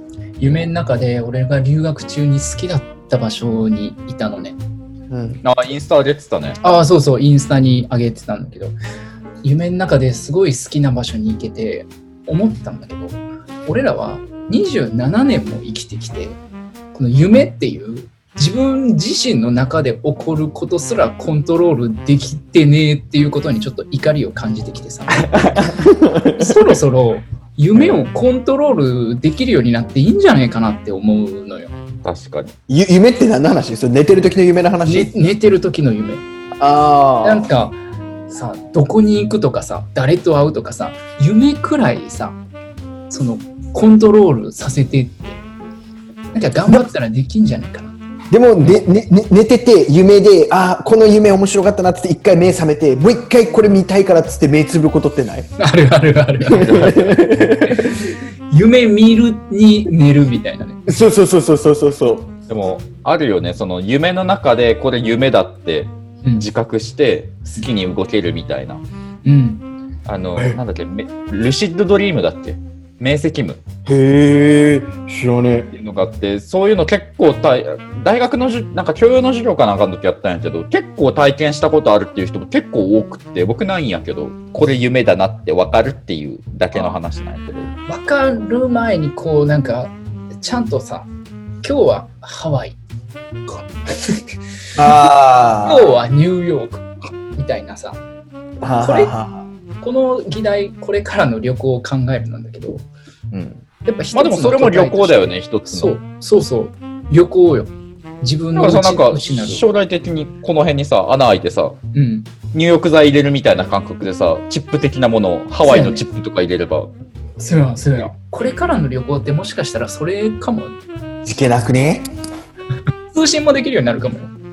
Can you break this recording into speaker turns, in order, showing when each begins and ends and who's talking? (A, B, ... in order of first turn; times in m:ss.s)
0:00.4-0:04.6 A
0:05.1-0:05.4 B
0:05.4-0:06.6 C
0:06.6-0:08.8 A
0:09.4-0:16.4 A
0:16.9-0:25.7 A
0:25.6-0:26.7 B
0:26.3-0:31.7 A
0:27.8-0:28.0 B
0:32.0-0:32.5 C
0:32.7-0:35.1 B
0:34.8-0:36.2 A
0:36.6-0:37.5 B
0:37.2-0:37.8 A
0:38.3-0:42.4 A
0:43.1-0:45.4 A
0:46.3-0:47.9 A
0:46.7-0:46.9 B
0:48.3-0:55.5 B
0:55.6-0:56.8 A
0:56.4-0:57.3 C
0:56.5-0:58.0 B
0:57.6-1:00.8 A
1:00.9-1:02.3 B
1:02.5-1:08.8 C
1:06.2-1:06.5 A
1:09.2-1:09.6 A
1:10.0-1:13.6 C
1:13.8-1:15.7 B
1:15.7-1:27.7 C
1:27.8-1:31.1 A
1:31.6-1:32.8 A
1:33.4-1:34.2 A
1:34.8-1:36.0 B
1:35.6-1:38.0 A
1:38.6-1:39.4 B
1:38.8-1:39.1 A
1:39.8-1:42.8 A
1:43.3-1:43.6 B
1:43.8-1:49.6 A
1:44.1-1:46.0 C
1:48.5-1:51.8 C
1:51.9-1:52.3 A
1:52.5-1:56.9 C
1:55.6-1:56.0 A
1:57.4-2:00.8 A
2:01.2-2:02.1 B
2:03.1-2:04.3 A